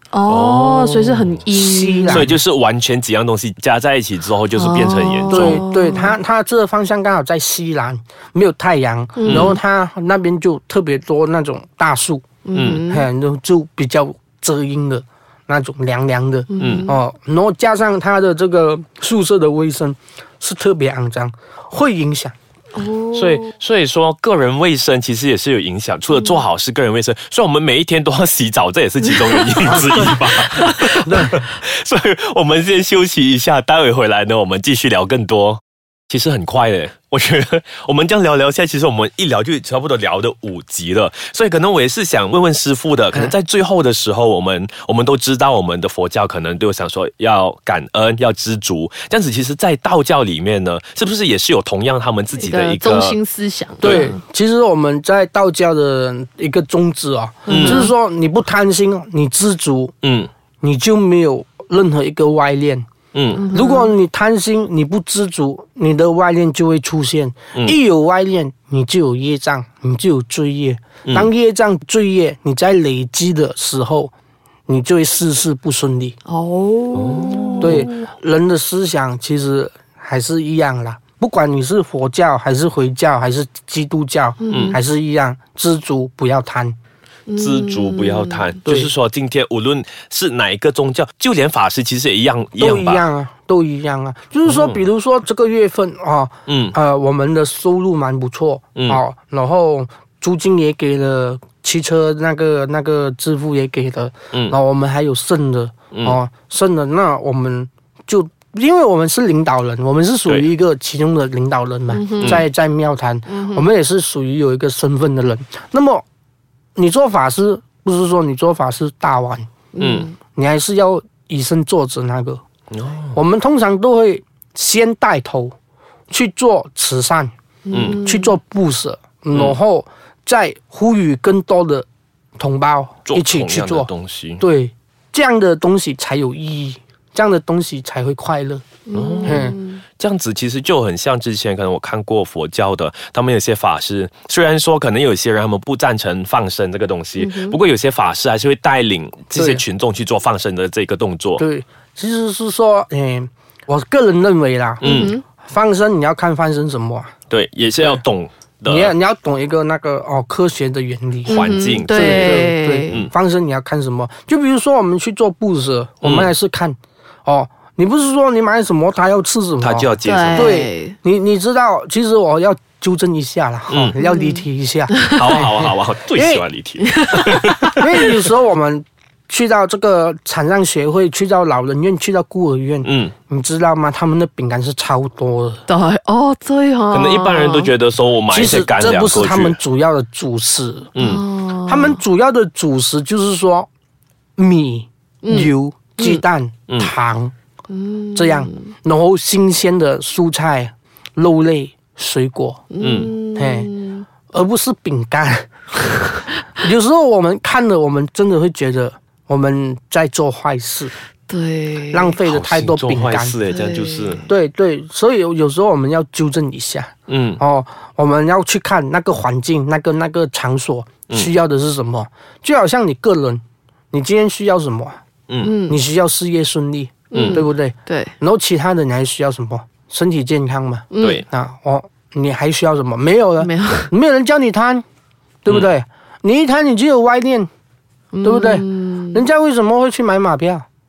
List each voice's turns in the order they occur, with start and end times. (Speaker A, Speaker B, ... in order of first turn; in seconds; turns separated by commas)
Speaker A: 0.1-2.3, Speaker B: 0.3-1.4, Speaker C: 1.5-2.4, Speaker B: 2.1-5.7, Speaker A: 4.5-6.1, Speaker C: 5.3-12.3, Speaker A: 9.2-9.6, Speaker B: 9.2-9.6, Speaker A: 12.4-13.1, Speaker B: 12.6-12.8, Speaker C: 12.8-22.4, Speaker A: 16.5-17.0, Speaker B: 16.6-16.9, Speaker A: 22.8-23.5, Speaker B: 23.1-53.2, Speaker C: 29.8-30.2, Speaker C: 30.9-31.4, Speaker A: 52.4-54.2, Speaker B: 53.8-54.1, Speaker C: 53.8-59.9, Speaker A: 57.5-57.9, Speaker B: 57.5-57.9, Speaker B: 60.0-60.3, Speaker C: 60.6-62.9, Speaker B: 63.1-63.5, Speaker A: 63.4-63.9, Speaker C: 63.5-74.1, Speaker C: 74.7-76.2, Speaker A: 76.3-78.1, Speaker B: 77.0-77.9, Speaker C: 77.6-86.8, Speaker A: 84.4-84.8, Speaker B: 84.5-84.8, Speaker A: 87.3-88.6, Speaker B: 87.4-93.0, Speaker C: 92.6-116.0, Speaker B: 94.5-94.8, Speaker B: 96.5-96.8, Speaker B: 98.8-99.0, Speaker A: 111.9-112.5, Speaker A: 113.3-113.7, Speaker C: 116.8-119.5, Speaker A: 119.7-120.2, Speaker B: 119.8-120.1, Speaker C: 120.3-122.4, Speaker B: 122.7-123.2, Speaker C: 123.1-125.5, Speaker C: 126.1-131.9, Speaker A: 127.7-128.3, Speaker B: 127.7-128.0, Speaker B: 129.3-129.6, Speaker C: 132.4-138.7, Speaker B: 133.1-134.4, Speaker A: 138.9-139.8, Speaker B: 138.9-151.4, Speaker C: 139.2-139.6, Speaker A: 147.2-147.6, Speaker C: 149.3-149.6, Speaker C: 151.4-157.1, Speaker B: 154.8-155.2, Speaker A: 154.8-155.2, Speaker B: 157.3-158.9, Speaker C: 158.7-176.4, Speaker A: 161.3-163.1, Speaker B: 161.3-163.1, Speaker B: 166.0-166.3, Speaker B: 169.6-170.6, Speaker A: 170.1-170.9, Speaker B: 173.7-174.0, Speaker A: 174.0-175.1, Speaker B: 175.1-178.1, Speaker A: 177.0-177.8, Speaker C: 177.7-185.6, Speaker B: 182.8-183.1, Speaker A: 185.7-187.7, Speaker B: 186.9-189.6, Speaker C: 188.3-191.0, Speaker B: 191.0-191.2, Speaker A: 191.0-192.0, Speaker C: 191.7-193.7, Speaker C: 194.4-197.3, Speaker A: 195.2-196.2, Speaker A: 197.7-198.6, Speaker C: 198.2-202.6, Speaker A: 202.7-204.1, Speaker B: 202.8-203.1, Speaker C: 203.3-203.7, Speaker C: 204.3-210.9, Speaker A: 211.3-212.2, Speaker C: 211.9-213.4, Speaker B: 212.2-214.3, Speaker A: 213.5-214.3, Speaker C: 214.3-225.0, Speaker B: 217.1-217.4, Speaker B: 225.3-225.5, Speaker A: 225.4-225.8, Speaker C: 225.7-234.8, Speaker B: 227.1-227.4, Speaker A: 227.1-228.1, Speaker A: 230.9-231.2, Speaker B: 231.0-231.2, Speaker A: 233.4-233.9, Speaker C: 235.4-237.5, Speaker A: 238.1-239.2, Speaker C: 238.2-240.7